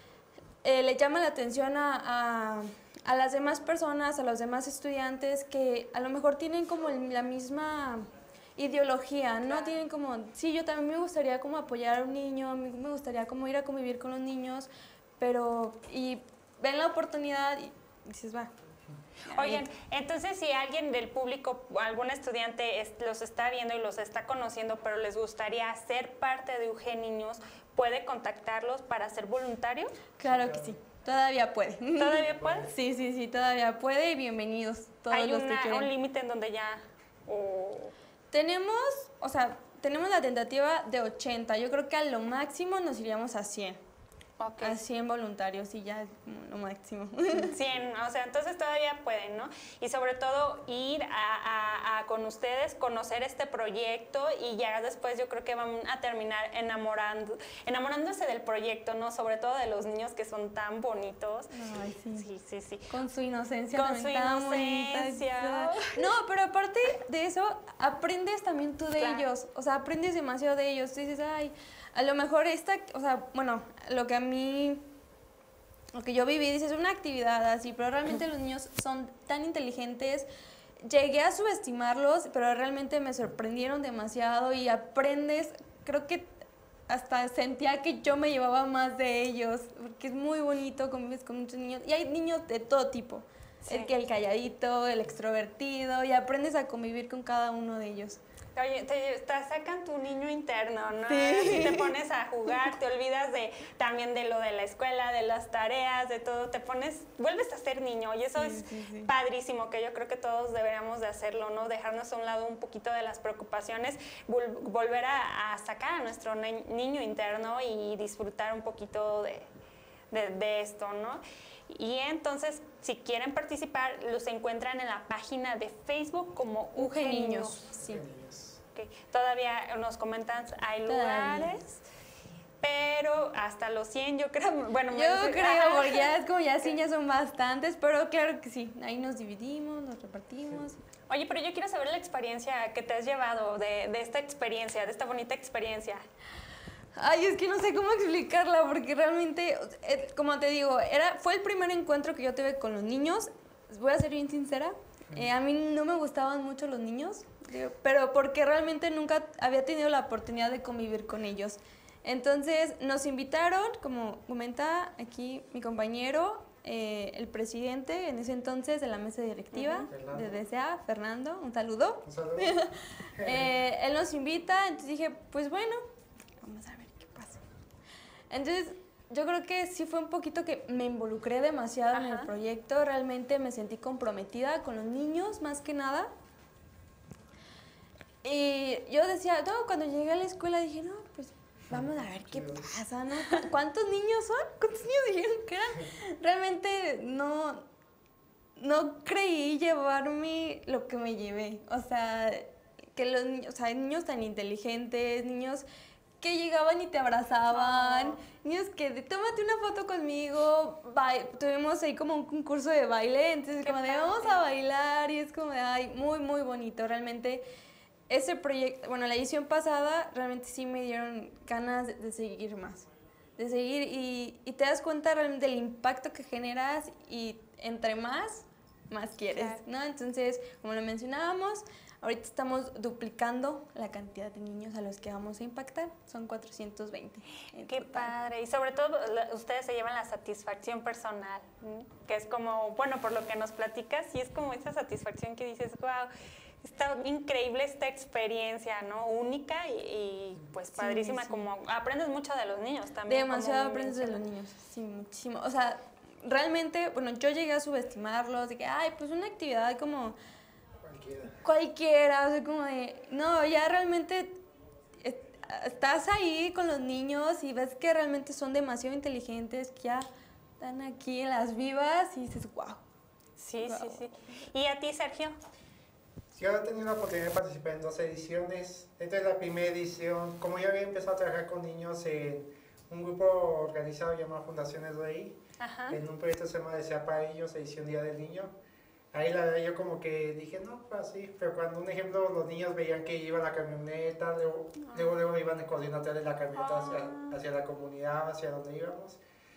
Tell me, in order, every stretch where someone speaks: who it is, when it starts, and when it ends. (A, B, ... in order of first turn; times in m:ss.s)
0:00.6-0:18.5 A
0:09.5-0:09.8 B
0:19.3-0:19.6 A
0:19.3-0:30.0 B
0:30.2-0:35.9 A
0:30.2-0:30.8 C
0:32.0-0:32.7 B
0:32.2-0:32.7 C
0:35.1-0:37.9 B
0:38.3-0:43.8 A
0:44.4-0:44.8 B
0:44.6-0:47.6 A
0:47.4-1:01.5 B
1:01.5-1:02.3 A
1:02.1-1:02.9 B
1:02.9-1:14.8 A
1:03.7-1:06.0 B
1:09.0-1:09.3 B
1:15.9-1:20.3 A
1:20.8-1:26.3 A
1:26.9-1:38.2 A
1:33.6-1:33.9 B
1:38.6-1:59.5 B
1:41.1-1:41.9 A
1:41.5-1:41.7 C
1:48.4-1:49.1 A
2:00.1-2:07.7 B
2:06.8-2:08.0 A
2:07.8-2:08.6 C
2:08.8-2:11.8 B
2:10.8-2:11.5 A
2:12.6-2:16.8 B
2:14.9-2:20.8 A
2:21.1-2:26.0 B
2:27.0-2:55.8 A
2:49.5-2:49.9 B
2:49.9-2:50.4 C
2:52.0-2:52.6 C
2:53.2-2:53.5 C
2:56.4-2:57.4 A
2:58.3-3:06.1 A
3:01.9-3:02.3 B
3:08.2-3:17.7 A
3:11.7-3:12.7 C
3:18.6-3:25.6 A
3:26.2-3:37.4 A
3:27.5-3:28.2 B
3:33.6-3:34.4 B
3:38.1-3:42.9 A
3:43.4-3:58.1 A
3:49.3-3:49.6 B
3:57.7-4:06.1 B
4:06.6-4:14.2 B
4:10.8-4:11.5 A
4:13.1-4:20.2 A
4:20.8-4:21.4 C
4:21.4-4:24.4 A
4:25.0-4:30.1 A
4:30.6-4:32.8 A
4:33.4-4:35.4 B
4:33.6-4:34.1 A
4:36.4-4:48.5 C
4:45.6-4:46.0 B
4:49.1-4:59.2 C
4:54.8-4:55.2 B
4:56.6-4:57.4 B